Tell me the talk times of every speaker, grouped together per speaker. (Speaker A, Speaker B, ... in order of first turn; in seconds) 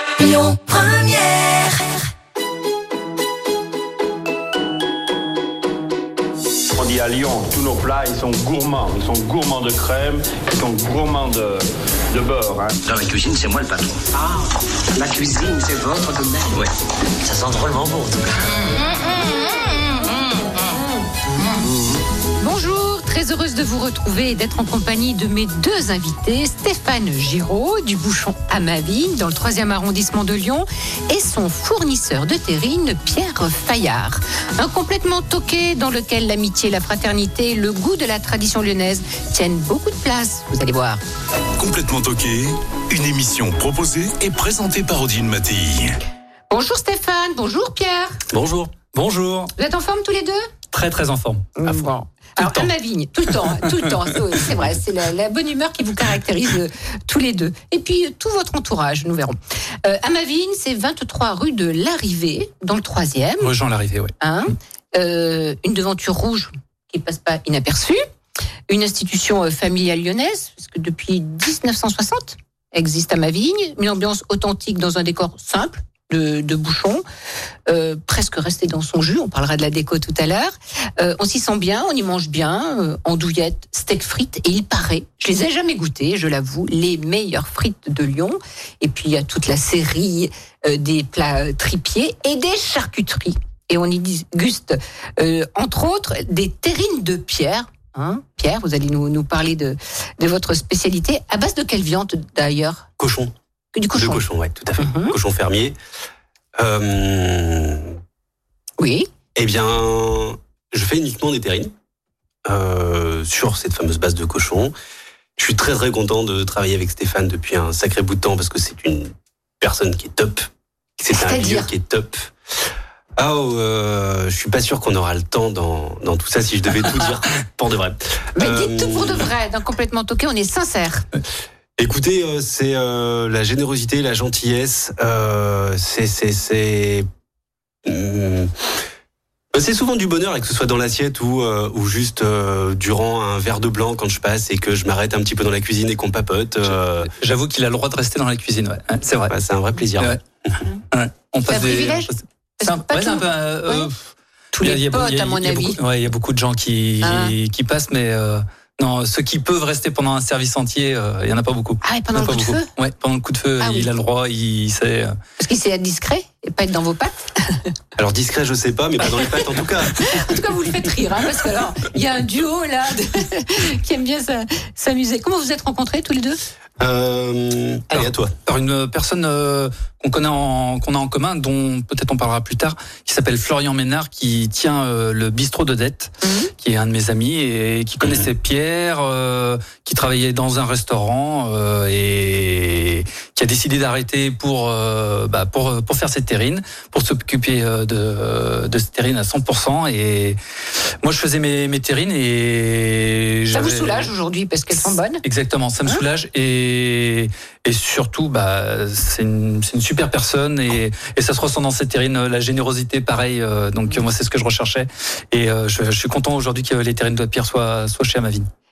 Speaker A: 6.8-12.8
Speaker B: 12.8-16.7, 17.2-18.8
Speaker C: 22.4-41.0, 46.5-48.2, 49.6-50.4, 51.6-63.5, 64.2-68.0, 68.7-77.0, 77.7-102.9, 103.7-104.2, 104.8-105.1, 108.8-109.1, 121.1-121.7, 128.3-131.1, 151.5-152.1, 152.6-153.9, 154.5-155.8, 157.0-157.3, 161.8-162.7, 163.6-163.9, 165.4-167.6, 170.0-176.4, 186.2-186.5, 203.5-205.2
Speaker D: 41.6-45.9
Speaker E: 48.3-48.7, 103.0-103.3, 103.9-105.8, 106.6-108.0, 109.3-111.7, 112.5-114.7, 115.4-120.5, 121.0-122.3, 123.2-129.3, 131.8-137.1, 137.8-138.5, 139.5-147.1, 149.3-150.1, 168.0-170.2, 176.8-178.3, 188.0-188.3
Speaker F: 48.8-49.5, 50.7-51.8, 52.4-52.7, 53.5-54.5, 63.4-64.1, 146.6-149.3, 150.9-165.2, 177.9-200.4, 201.0-204.1, 204.7-218.5